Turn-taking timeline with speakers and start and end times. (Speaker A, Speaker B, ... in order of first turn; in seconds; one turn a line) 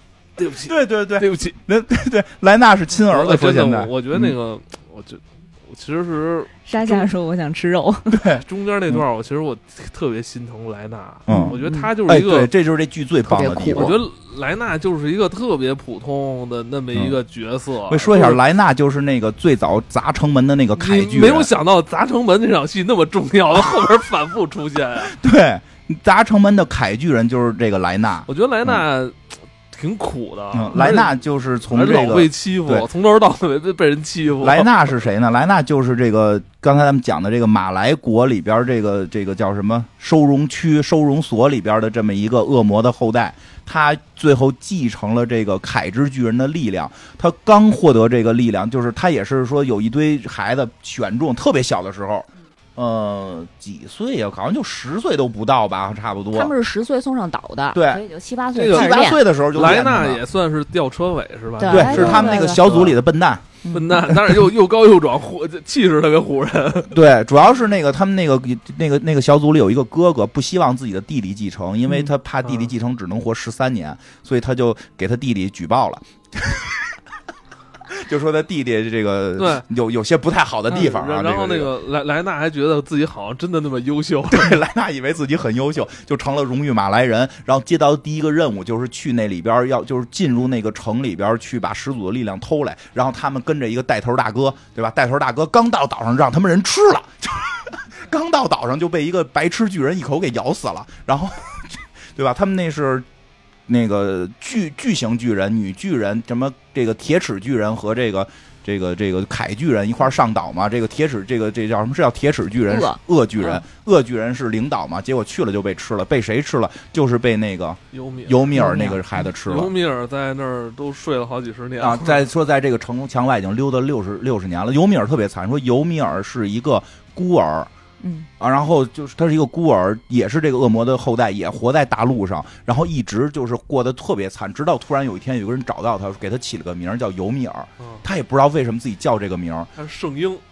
Speaker A: 0.4-1.6
Speaker B: 0.7-4.3
Speaker A: 3.1-7.1
Speaker C: 6.7-8.2
Speaker B: 8.1-9.0
Speaker A: 8.4-12.5
Speaker B: 11.3-14.0
Speaker C: 11.3-11.9
Speaker C: 13.3-14.0
Speaker A: 13.8-18.4
Speaker B: 17.9-21.5
Speaker A: 20.8-25.2
Speaker B: 25.0-28.8
Speaker A: 28.3-31.1
Speaker B: 30.5-32.9
Speaker A: 31.7-34.9
Speaker B: 34.4-56.5
Speaker C: 56.3-59.2
Speaker B: 57.7-58.0
Speaker A: 58.5-63.0
Speaker B: 58.6-60.2
Speaker C: 61.6-62.7
Speaker B: 61.7-63.5
Speaker C: 63.6-64.1
Speaker A: 63.7-67.0
Speaker B: 64.1-64.3
Speaker B: 66.9-76.9
Speaker A: 72.4-72.7
Speaker B: 77.9-81.7
Speaker A: 79.4-79.7
Speaker A: 80.7-84.6
Speaker B: 84.3-103.1
Speaker B: 103.7-119.7
Speaker C: 112.7-113.6
Speaker A: 117.9-118.6
Speaker C: 118.5-119.3
Speaker A: 119.4-122.3
Speaker B: 121.8-127.7
Speaker C: 128.0-128.3
Speaker B: 128.4-139.7
Speaker A: 137.8-138.0
Speaker A: 139.8-140.4